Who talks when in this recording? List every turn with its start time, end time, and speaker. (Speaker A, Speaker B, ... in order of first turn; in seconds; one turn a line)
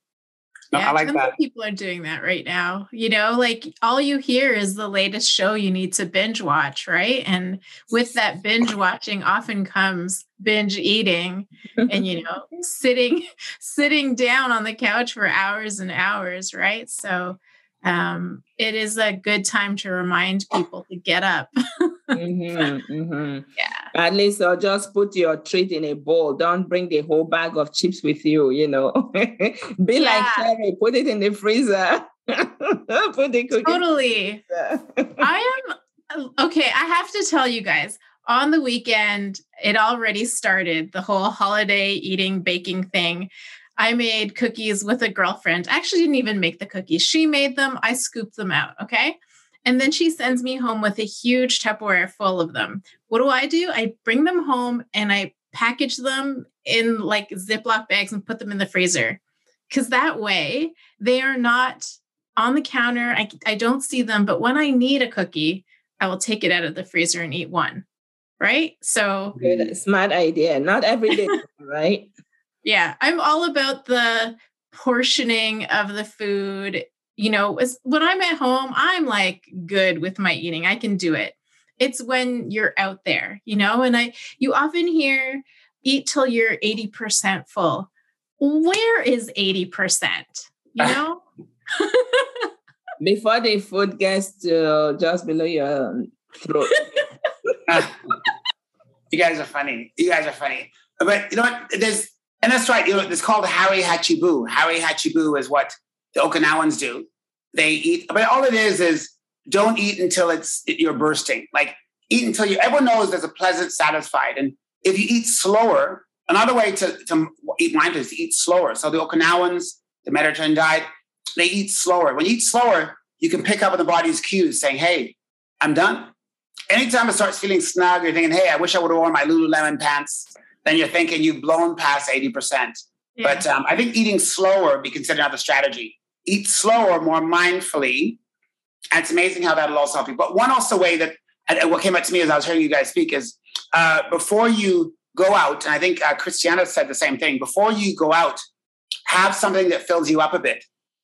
Speaker A: 0.7-1.3
Speaker B: 0.7-22.2
Speaker C: 22.1-33.8
Speaker B: 23.6-23.9
Speaker B: 29.9-30.5
Speaker B: 33.6-34.4
Speaker C: 34.5-35.3
Speaker B: 35.2-59.2
Speaker B: 59.7-67.8
Speaker B: 68.4-69.4
Speaker A: 69.4-69.7
Speaker C: 69.4-72.1
Speaker B: 72.6-87.9
Speaker B: 88.4-92.5
Speaker C: 93.0-97.0
Speaker A: 97.7-97.9
Speaker A: 99.1-126.1
Speaker A: 126.7-138.2
Speaker B: 133.2-133.4
Speaker A: 138.9-148.4
Speaker A: 149.1-150.6